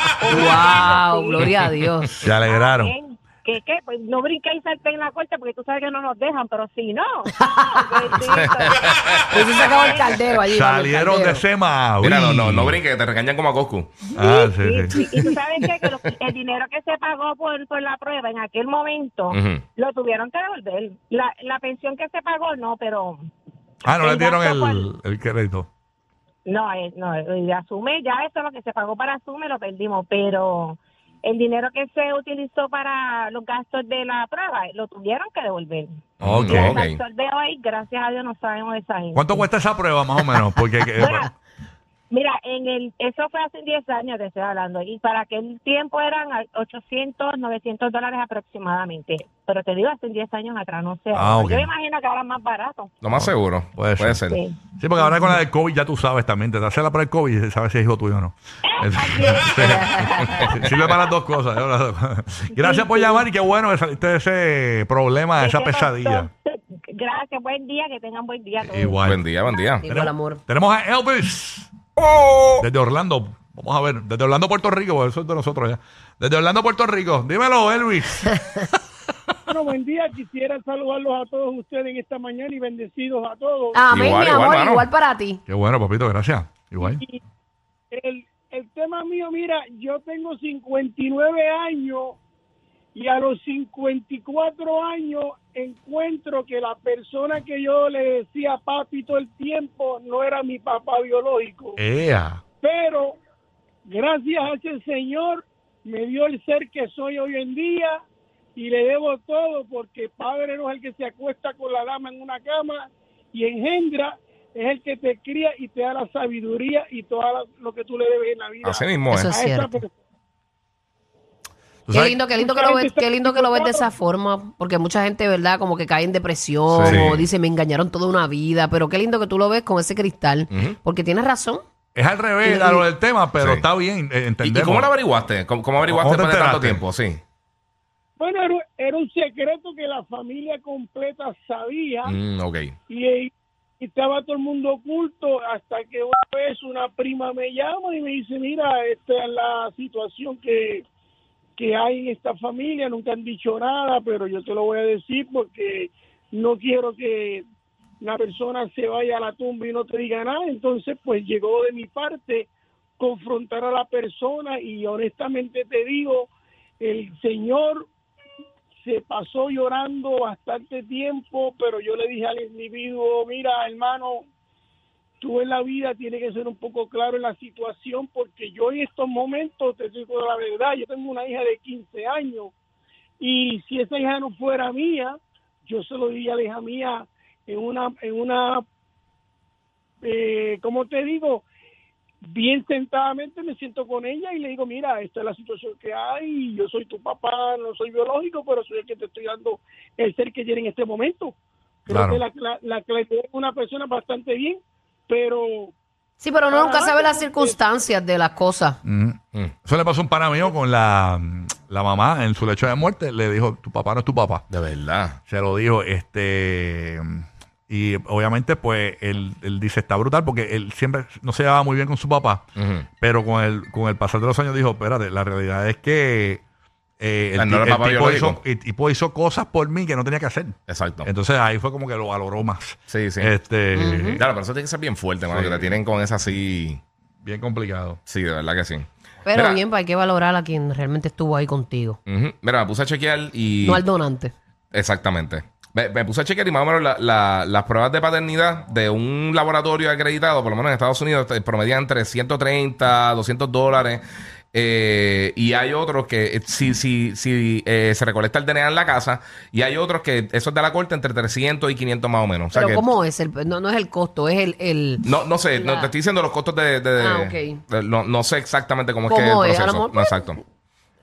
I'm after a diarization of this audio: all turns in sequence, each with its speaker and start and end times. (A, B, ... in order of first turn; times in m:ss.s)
0:00.2-0:01.4 A
0:00.3-0:02.1 B
0:02.1-0:02.9 C
0:02.4-0:08.8 A
0:08.2-0:09.7 D
0:09.3-0:11.4 B
0:10.5-0:12.8 C
0:12.0-0:13.9 D
0:14.2-0:15.0 C
0:14.3-0:23.2 A
0:15.6-0:16.1 D
0:19.3-0:19.6 D
0:23.8-0:25.7 C
0:24.0-0:24.8 A
0:26.4-0:36.0 A
0:36.2-0:37.0 D
0:36.2-0:36.8 C
0:36.5-0:39.3 A
0:39.1-0:41.3 C
0:42.1-0:52.9 A
0:51.1-0:51.7 C
0:53.0-0:54.4 D
0:53.1-0:54.2 C
0:54.8-1:06.3 C
0:58.9-0:59.4 A
0:59.6-1:00.3 B
1:05.4-1:08.9 A
1:08.6-1:09.2 C
1:09.0-1:09.8 D
1:09.8-1:10.4 B
1:09.9-1:11.7 C
1:12.6-1:18.7 C
1:19.5-1:23.8 E
1:23.7-1:25.4 B
1:23.9-1:24.8 D
1:25.5-1:27.0 C
1:26.8-1:27.2 E
1:27.9-1:32.2 E
1:32.9-1:41.8 E
1:41.8-1:42.4 C
1:42.6-1:43.2 E
1:43.8-1:48.0 E
1:48.6-1:59.9 E
1:58.6-1:59.3 D
1:59.1-1:59.8 B
2:01.9-2:02.2 C
2:01.9-2:11.6 B
2:02.3-2:03.9 E
2:06.7-2:07.1 C
2:06.8-2:07.3 D
2:10.5-2:10.8 D
2:11.9-2:14.9 C
2:12.4-2:12.8 B
2:13.4-2:13.6 D
2:14.4-2:17.2 D
2:15.9-2:16.8 C
2:18.2-2:22.1 E
2:22.0-2:22.7 D
2:22.9-2:30.8 E
2:31.6-2:37.4 E
2:38.0-2:42.5 E
2:43.0-2:46.3 E
2:46.8-2:47.9 E
2:48.8-2:54.2 E
2:55.2-3:02.5 E
3:03.2-3:08.6 E
3:10.0-3:11.4 E
3:12.2-3:21.3 E
3:21.8-3:25.7 E
3:21.9-3:22.2 C
3:26.2-3:28.8 B
3:26.5-3:27.6 E
3:28.8-3:34.5 C
3:34.5-3:35.2 D
3:35.3-3:46.4 C
3:42.6-3:42.8 D
3:47.0-3:54.2 C
3:47.4-3:48.4 D
3:50.7-3:51.1 D
3:52.9-3:53.3 D
3:53.7-3:54.2 B
3:54.2-3:56.8 D
3:55.3-3:55.8 C
3:57.2-3:58.0 C
3:58.1-3:59.6 D
3:59.2-4:02.0 B
4:02.0-4:03.8 D
4:03.6-4:04.3 B
4:04.7-4:22.8 D
4:22.5-4:25.9 B
4:25.0-4:30.4 D
4:27.0-4:27.6 B
4:29.0-4:30.3 B